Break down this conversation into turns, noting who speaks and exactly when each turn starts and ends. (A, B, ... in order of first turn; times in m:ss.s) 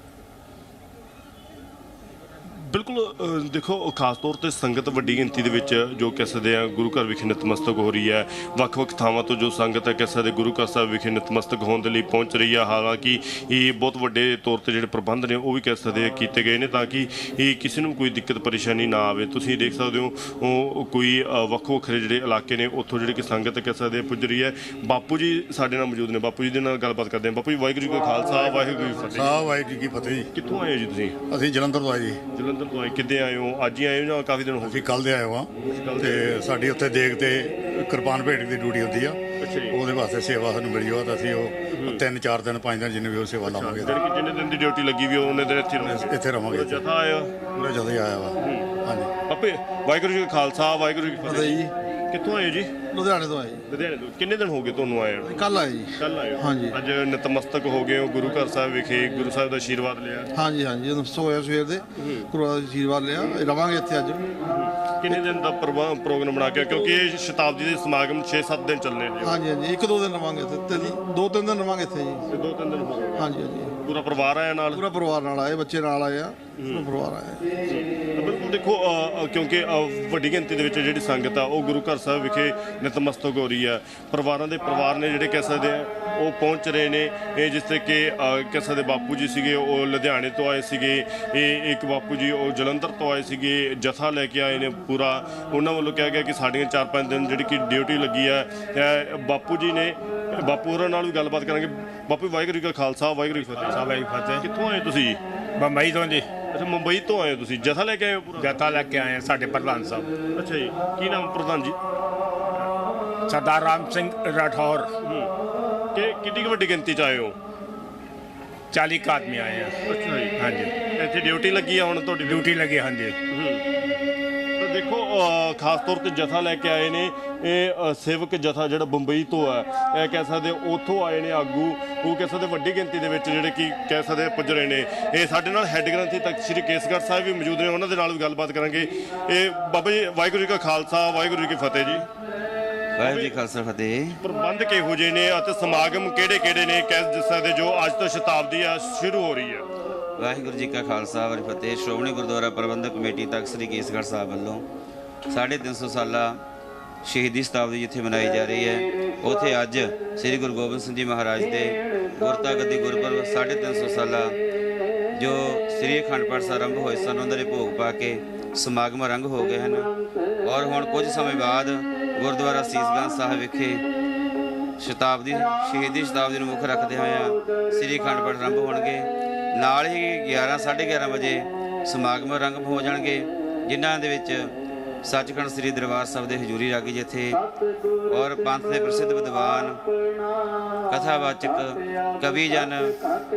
0:02.6-0:29.4 A
0:29.1-0:30.3 B
0:30.3-0:31.2 A
0:31.3-0:32.2 B
0:32.3-0:35.0 A
0:34.6-0:44.0 B
0:35.7-0:36.4 A
0:39.4-0:39.8 A
0:41.7-0:42.0 A
0:43.4-0:47.4 A
0:45.8-0:46.8 B
0:47.5-0:49.1 B
0:48.4-0:48.7 A
0:49.3-0:52.8 A
0:51.2-0:51.7 C
0:52.9-0:53.6 C
0:53.7-1:00.3 A
0:55.3-0:56.8 C
1:00.3-1:04.2 C
1:02.0-1:02.3 A
1:04.5-1:09.4 A
1:09.2-1:12.2 C
1:12.3-1:14.8 A
1:13.2-1:13.7 C
1:14.7-1:17.4 C
1:16.6-1:16.9 A
1:17.6-1:43.8 A
1:43.3-1:44.4 D
1:44.4-1:45.2 A
1:45.6-1:46.3 D
1:46.5-1:48.6 A
1:48.4-1:50.1 D
1:50.4-1:51.8 A
1:53.3-1:54.9 D
1:55.0-1:55.3 A
1:55.9-1:57.4 A
1:58.7-1:59.7 D
1:59.9-2:02.5 A
2:00.4-2:00.8 D
2:02.3-2:03.2 D
2:03.3-2:03.6 A
2:04.6-2:22.1 A
2:23.0-2:24.2 E
2:23.0-2:23.4 A
2:24.2-2:29.7 A
2:30.2-2:34.6 E
2:35.3-2:36.4 E
2:37.0-2:44.4 E
2:45.1-2:49.9 E
2:50.4-2:53.8 E
2:54.8-3:07.4 E
3:08.1-3:09.8 E
3:10.9-3:13.0 E